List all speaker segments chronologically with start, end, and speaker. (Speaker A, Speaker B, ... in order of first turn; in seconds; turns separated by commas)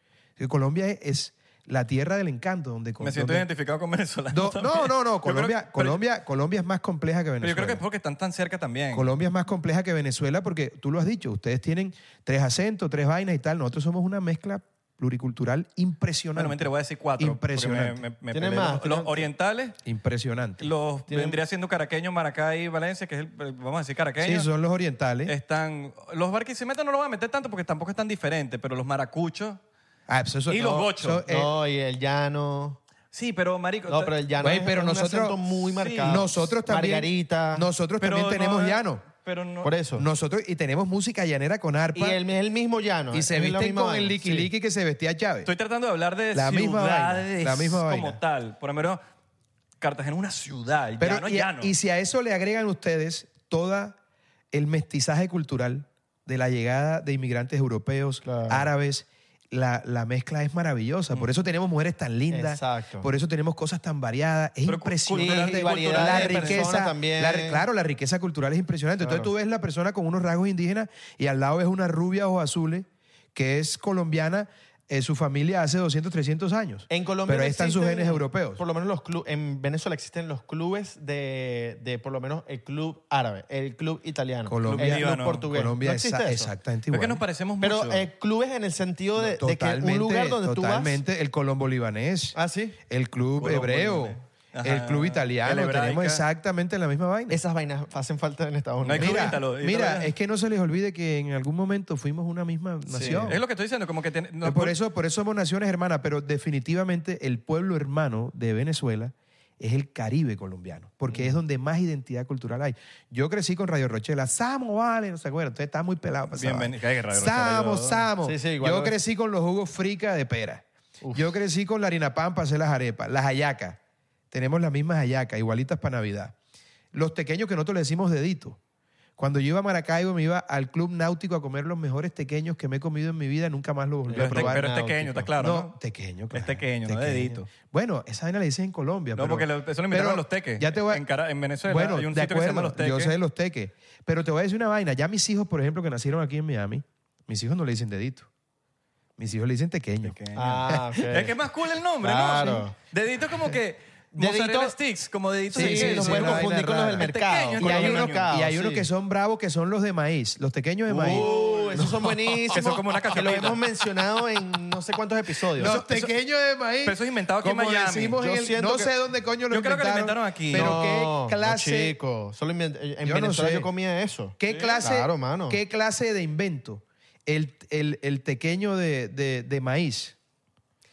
Speaker A: 0.4-3.5, Speaker B: 3.0-6.0, Speaker A: 4.3-7.8, Speaker B: 7.4-9.1, Speaker A: 8.9-18.0, Speaker B: 16.4-19.8, Speaker C: 18.3-19.3, Speaker A: 19.8-20.7, Speaker B: 20.6-24.5, Speaker C: 21.1-21.4, Speaker A: 24.2-25.3, Speaker B: 25.2-29.6, Speaker A: 30.1-31.5, Speaker B: 30.5-31.2, Speaker C: 31.2-32.8, Speaker B: 33.1-34.1, Speaker C: 33.9-37.6, Speaker A: 34.4-35.4, Speaker B: 35.7-36.3, Speaker A: 36.0-39.0, Speaker B: 38.0-39.7, Speaker C: 39.6-40.0, Speaker A: 40.0-42.2, Speaker C: 42.0-44.5, Speaker A: 43.1-45.5, Speaker B: 45.4-49.0, Speaker A: 46.3-48.2, Speaker B: 49.8-51.7, Speaker A: 51.0-54.0, Speaker A: 54.5-78.6, Speaker C: 58.2-58.6, Speaker C: 62.3-63.1, Speaker B: 64.7-66.7, Speaker C: 65.1-67.6, Speaker C: 69.0-69.3, Speaker C: 76.9-86.5, Speaker A: 84.5-87.2, Speaker B: 84.6-85.5, Speaker B: 86.9-88.0, Speaker C: 87.6-91.0, Speaker A: 89.2-92.4, Speaker C: 92.3-92.8, Speaker A: 92.9-97.4, Speaker B: 93.4-96.2, Speaker C: 97.3-99.4, Speaker B: 98.8-100.1, Speaker A: 98.9-103.4, Speaker C: 102.9-103.3, Speaker B: 103.0-104.8, Speaker A: 104.4-123.8, Speaker C: 111.1-111.4, Speaker B: 116.3-118.1, Speaker C: 118.2-118.9, Speaker C: 121.0-121.3, Speaker A: 124.3-126.3, Speaker A: 126.9-128.6, Speaker A: 129.2-134.6, Speaker C: 134.1-135.3, Speaker B: 134.1-135.7, Speaker A: 135.4-141.0, Speaker B: 136.3-137.5, Speaker B: 139.1-143.1, Speaker A: 141.6-148.3, Speaker A: 149.2-151.0, Speaker B: 150.0-158.3, Speaker C: 150.3-151.3, Speaker C: 152.0-152.7, Speaker C: 154.2-154.8, Speaker C: 155.5-158.9, Speaker A: 155.5-162.7, Speaker C: 160.9-165.8, Speaker B: 160.9-163.6, Speaker B: 165.6-166.1, Speaker A: 165.6-171.9, Speaker B: 166.8-168.2, Speaker C: 168.2-168.9, Speaker B: 169.5-170.8, Speaker C: 170.5-175.6, Speaker A: 173.0-173.7, Speaker A: 174.4-180.2, Speaker B: 174.5-174.8